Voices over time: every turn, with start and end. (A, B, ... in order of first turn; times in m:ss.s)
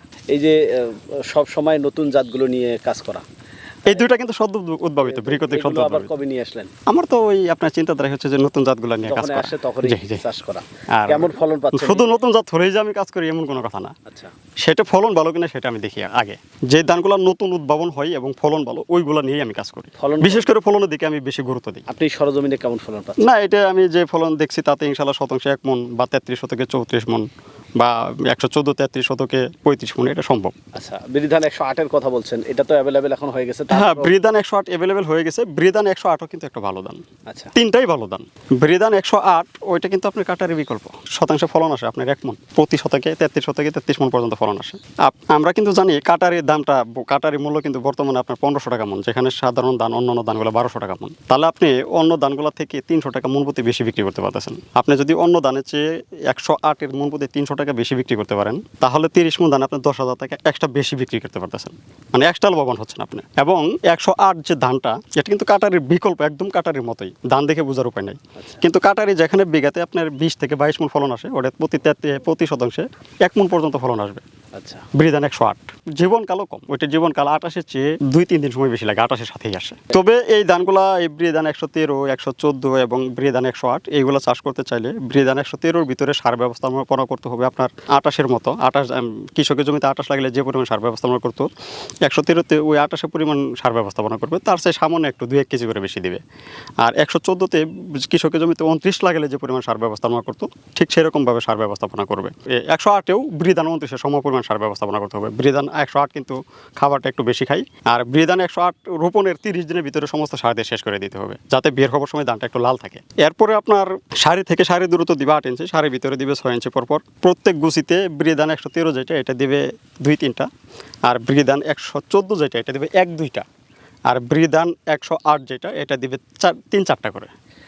0:00.3-0:03.2 A
0:03.9-0:06.1 B
0:05.0-0:06.7 A
0:06.9-0:10.2 B
0:09.0-0:12.2 A
0:10.9-0:13.9 B
0:14.1-0:14.3 A
0:14.6-0:21.8 B
0:20.0-0:20.5 A
0:21.9-0:23.2 A
0:23.2-0:27.2 B
0:27.8-0:30.5 B
0:30.8-0:34.1 A
0:33.7-0:37.0 B
0:37.3-0:37.5 A
0:37.6-1:14.2 B
1:14.6-1:14.9 A
1:14.9-1:31.5 B
1:32.0-1:36.2 B
1:36.8-2:00.5 B
2:01.1-2:03.4 B
2:04.1-2:07.3 B